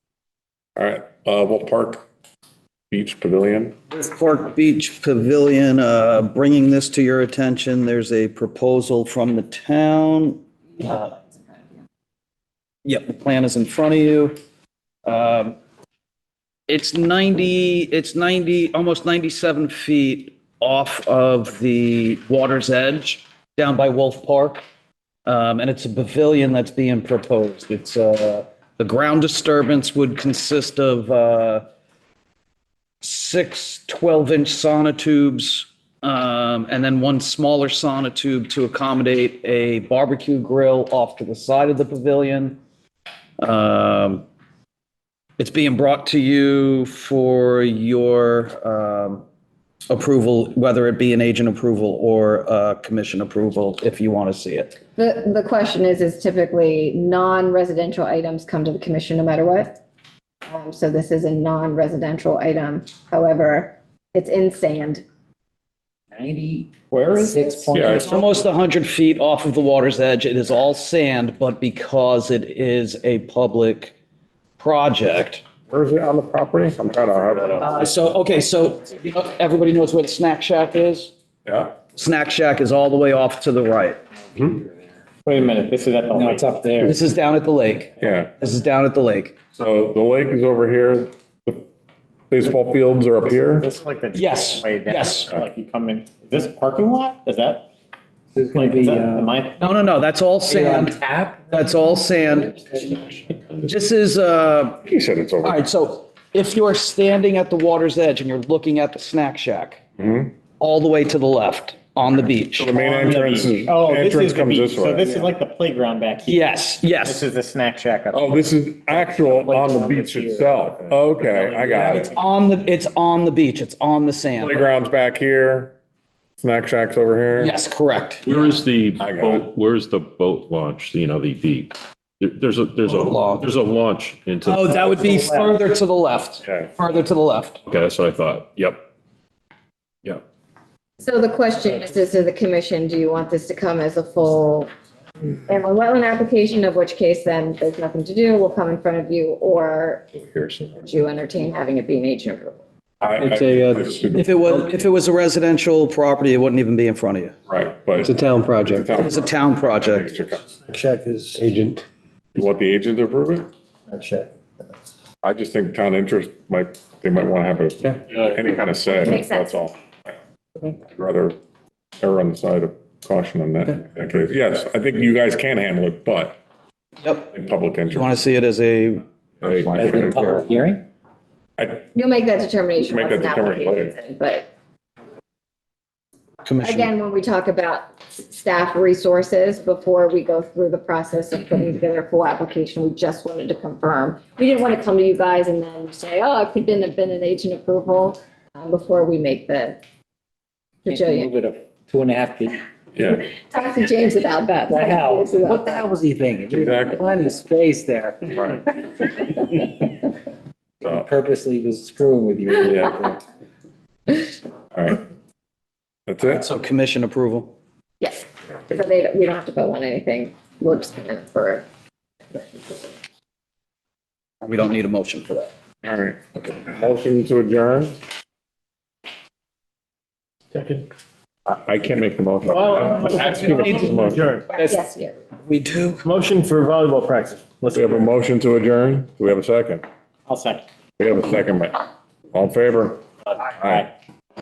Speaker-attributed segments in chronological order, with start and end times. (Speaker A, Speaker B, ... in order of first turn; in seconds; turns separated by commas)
Speaker A: 0.8-2.0, Speaker A: 2.9-3.7, Speaker B: 3.9-11.2, Speaker B: 12.8-14.4, Speaker B: 15.1-15.6, Speaker B: 16.7-24.6, Speaker B: 25.2-31.6, Speaker B: 33.0-42.6, Speaker B: 43.4-44.2, Speaker B: 45.4-49.2, Speaker B: 49.9-54.8, Speaker C: 55.0-59.8, Speaker C: 60.5-65.0, Speaker D: 66.1-68.3, Speaker E: 66.9-67.9, Speaker A: 67.7-68.2, Speaker B: 68.0-73.9, Speaker B: 74.6-75.5, Speaker A: 75.7-77.7, Speaker B: 77.6-81.1, Speaker A: 81.5-81.7, Speaker B: 81.8-84.0, Speaker E: 85.2-86.7, Speaker D: 86.1-87.0, Speaker B: 86.8-89.4, Speaker A: 88.0-88.3, Speaker A: 89.5-91.6, Speaker A: 92.3-93.7, Speaker E: 93.5-97.7, Speaker B: 94.1-95.3, Speaker D: 98.3-99.3, Speaker E: 98.5-99.7, Speaker B: 99.6-103.0, Speaker D: 100.5-101.5, Speaker F: 103.4-103.7, Speaker B: 103.6-104.8, Speaker A: 104.8-105.6, Speaker B: 105.4-109.8, Speaker A: 110.0-110.3, Speaker B: 110.5-112.8, Speaker A: 112.6-115.0, Speaker E: 112.7-122.1, Speaker B: 116.2-117.2, Speaker A: 118.1-122.1, Speaker B: 121.8-124.6, Speaker A: 124.4-125.7, Speaker A: 126.4-127.5, Speaker B: 127.4-128.2, Speaker F: 128.2-134.8, Speaker A: 129.0-129.5, Speaker B: 132.8-133.5, Speaker B: 134.4-137.6, Speaker F: 137.7-138.9, Speaker C: 141.0-144.7, Speaker C: 145.5-150.1, Speaker F: 150.2-150.6, Speaker C: 150.8-152.6, Speaker A: 153.0-154.4, Speaker G: 153.2-154.2, Speaker B: 154.2-157.3, Speaker A: 157.5-159.2, Speaker G: 158.0-158.9, Speaker B: 158.9-160.1, Speaker A: 160.0-160.4, Speaker G: 160.7-161.8, Speaker A: 162.3-163.5, Speaker G: 163.9-164.2, Speaker A: 165.2-169.7, Speaker C: 169.0-169.5, Speaker A: 170.7-171.3, Speaker A: 172.0-176.4, Speaker B: 177.0-177.3, Speaker A: 177.3-178.1, Speaker B: 177.9-180.0, Speaker A: 179.4-180.4, Speaker D: 179.7-180.8, Speaker A: 181.6-181.8, Speaker C: 181.9-184.5, Speaker A: 182.9-183.9, Speaker B: 186.4-186.9, Speaker C: 186.6-199.8, Speaker C: 200.8-201.3, Speaker D: 200.8-202.6, Speaker C: 203.0-205.8, Speaker D: 204.7-209.5, Speaker A: 206.5-207.0, Speaker D: 210.8-213.2, Speaker A: 214.7-215.0, Speaker A: 216.1-216.4, Speaker B: 216.2-217.5, Speaker C: 218.0-221.6, Speaker C: 222.3-222.8, Speaker B: 224.4-225.5, Speaker A: 225.8-228.0, Speaker E: 230.5-230.8, Speaker A: 231.5-234.3, Speaker E: 232.5-234.5, Speaker C: 234.5-235.2, Speaker B: 235.5-236.0, Speaker E: 236.0-238.1, Speaker A: 237.7-239.8, Speaker E: 240.3-240.6, Speaker A: 241.0-243.0, Speaker A: 243.6-243.9